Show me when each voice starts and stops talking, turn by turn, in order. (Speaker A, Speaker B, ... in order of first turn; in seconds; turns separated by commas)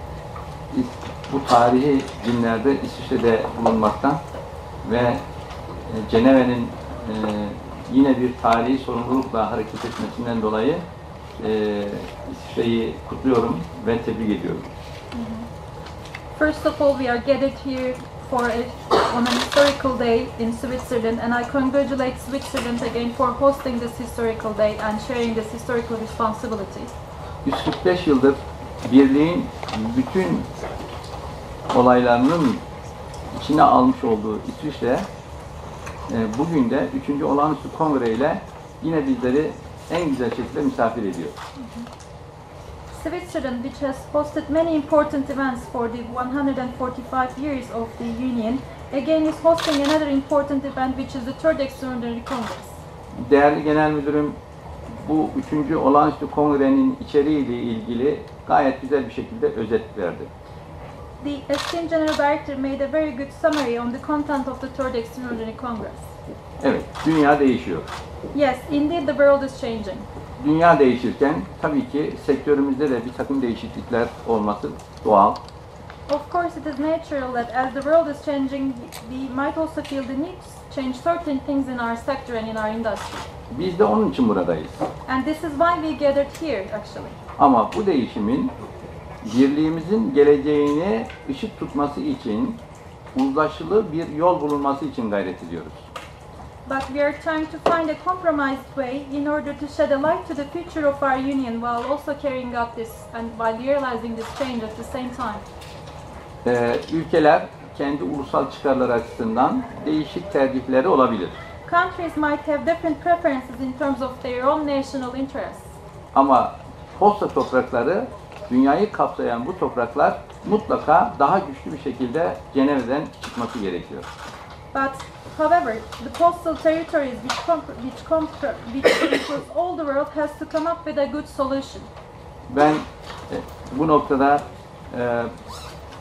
Speaker A: 0.7-4.2, Speaker A: 4.8-10.8, Speaker A: 11.3-14.7, Speaker B: 15.1-15.5, Speaker B: 16.3-26.9, Speaker A: 27.4-30.5, Speaker A: 31.7-32.6, Speaker A: 33.3-35.1, Speaker A: 36.1-41.3, Speaker B: 42.9-52.7, Speaker A: 53.1-54.4, Speaker A: 55.0-60.3, Speaker B: 61.2-66.1, Speaker A: 66.6-67.9, Speaker B: 68.3-70.1, Speaker A: 70.4-75.4, Speaker B: 76.1-83.3, Speaker A: 83.5-84.8, Speaker B: 85.0-87.2, Speaker A: 87.4-88.5, Speaker A: 89.2-92.6, Speaker A: 93.1-95.8, Speaker B: 96.7-105.4, Speaker A: 106.4-111.3, Speaker B: 111.7-115.7, Speaker A: 116.1-124.0, Speaker B: 124.7-131.9, Speaker A: 132.5-135.4